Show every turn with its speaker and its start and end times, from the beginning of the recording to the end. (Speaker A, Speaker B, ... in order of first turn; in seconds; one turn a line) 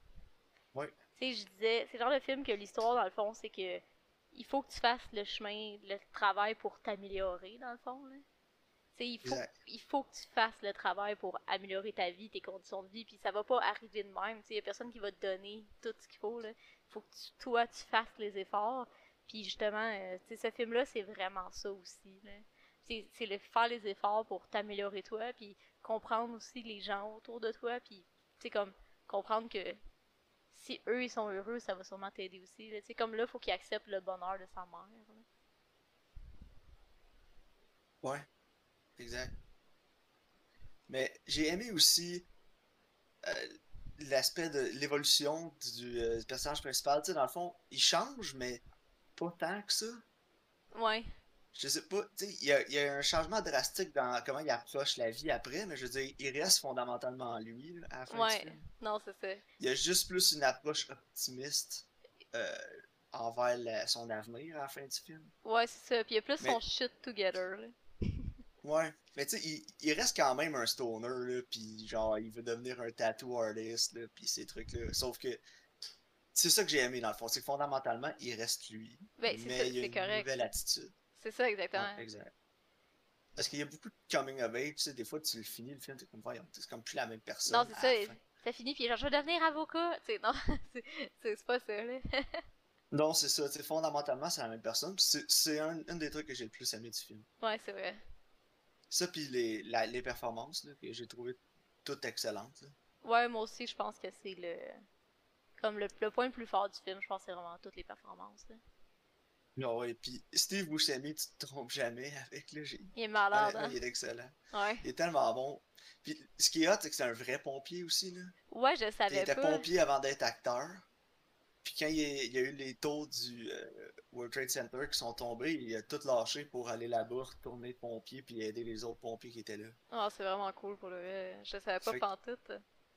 Speaker A: 1.2-3.8
Speaker A: 4.3-8.2
Speaker A: 8.9-29.8
Speaker B: 9.2-9.5
Speaker A: 30.5-35.2
Speaker B: 39.0-39.3
Speaker B: 40.9-42.3
Speaker B: 43.2-48.6
Speaker B: 49.2-50.0
Speaker A: 50.7-51.1
Speaker B: 51.5-58.6
Speaker A: 58.1-59.4
Speaker B: 59.6-65.3
Speaker A: 65.4-68.3
Speaker B: 68.6-75.4
Speaker B: 76.3-80.9
Speaker A: 79.2-80.3
Speaker A: 81.2-82.0
Speaker B: 81.8-82.3
Speaker B: 83.4-88.2
Speaker A: 87.5-92.4
Speaker B: 92.9-97.3
Speaker A: 97.4-98.0
Speaker B: 98.9-102.7
Speaker A: 103.0-104.8
Speaker A: 105.6-108.6
Speaker B: 109.6-118.3
Speaker A: 113.0-113.8
Speaker A: 114.5-114.9
Speaker A: 118.5-119.7
Speaker B: 119.1-120.8
Speaker B: 121.6-129.8
Speaker A: 129.9-132.6